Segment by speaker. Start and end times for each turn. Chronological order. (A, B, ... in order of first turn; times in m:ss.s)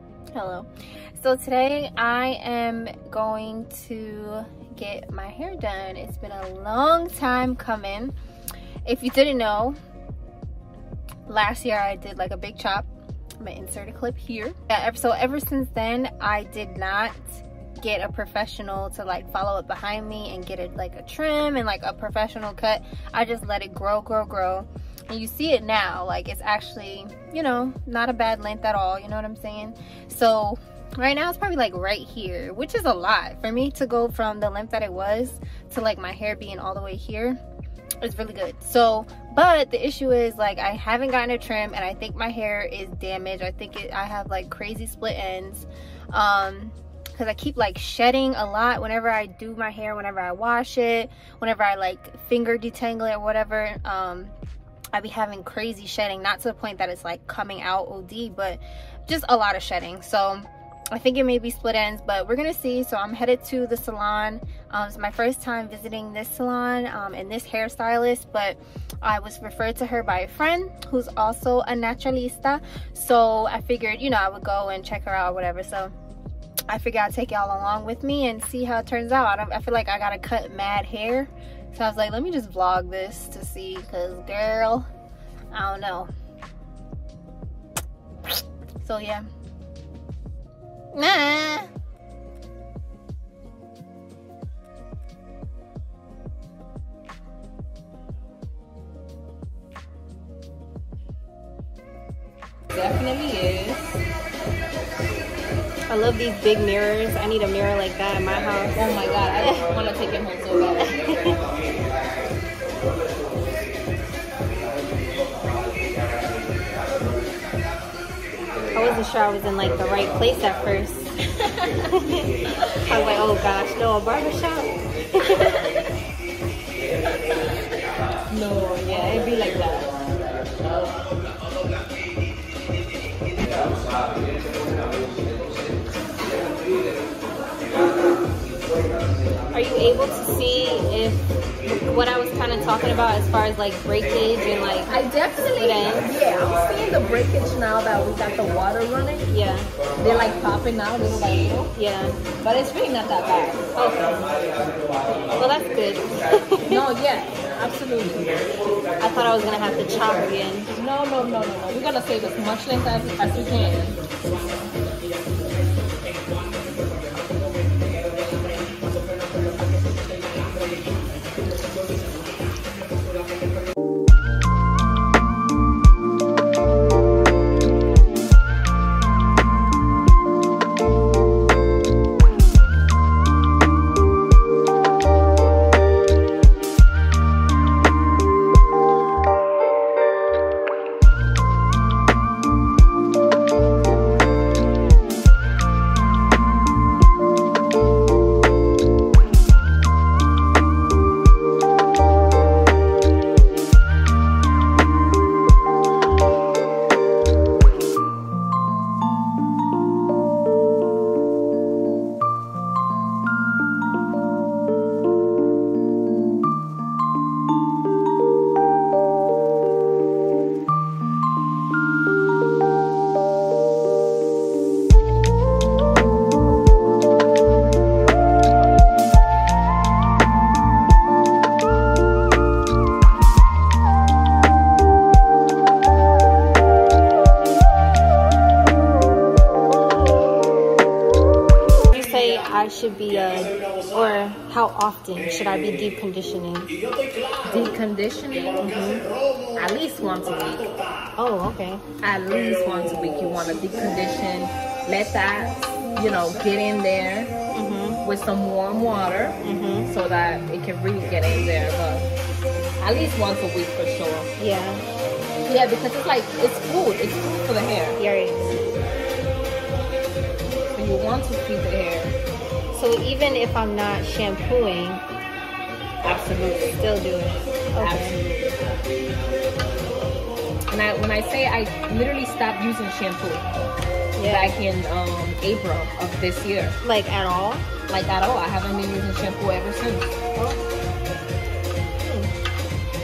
0:00.4-0:08.1 A
0:08.8-0:09.8 A
0:11.3-0:12.9 A
0:13.4-0:37.4 A
0:38.0-0:54.4 A
0:54.9-1:15.9 A
1:16.7-1:24.9 A
1:25.5-1:26.1 A
1:28.8-1:29.3 A
1:30.9-1:31.7 A
1:42.7-1:44.0 B
1:45.9-1:49.6 A
1:48.7-1:51.4 B
1:51.1-1:51.4 A
1:58.8-2:01.1 A
2:01.8-2:02.3 A
2:02.9-2:05.7 A
2:08.3-2:09.9 B
2:19.5-2:25.0 A
2:24.8-2:29.3 B
2:25.5-2:26.1 A
2:29.3-2:29.7 A
2:30.0-2:31.7 B
2:31.8-2:32.2 A
2:32.3-2:33.8 B
2:33.8-2:34.1 A
2:35.4-2:36.9 A
2:36.7-2:38.4 B
2:39.0-2:40.7 A
2:40.7-2:44.0 B
4:01.9-4:06.7 A
4:07.5-4:08.7 B
4:08.6-4:09.0 A
4:09.6-4:10.7 B
4:11.2-4:11.8 A
4:12.0-4:17.3 B
4:17.5-4:18.0 A
4:18.0-4:22.1 B
4:19.4-4:19.9 A
4:22.8-4:24.3 B
4:24.4-4:24.8 A
4:25.4-4:28.0 B
4:28.0-4:28.6 A
4:30.8-4:32.2 B
4:32.7-4:35.0 A
4:36.0-4:36.8 B
4:36.8-4:38.5 A
4:37.8-4:38.3 B
4:40.7-4:43.5 B
4:44.2-4:44.6 A
4:44.3-4:46.8 B
4:46.8-4:47.7 A
4:47.8-4:50.2 B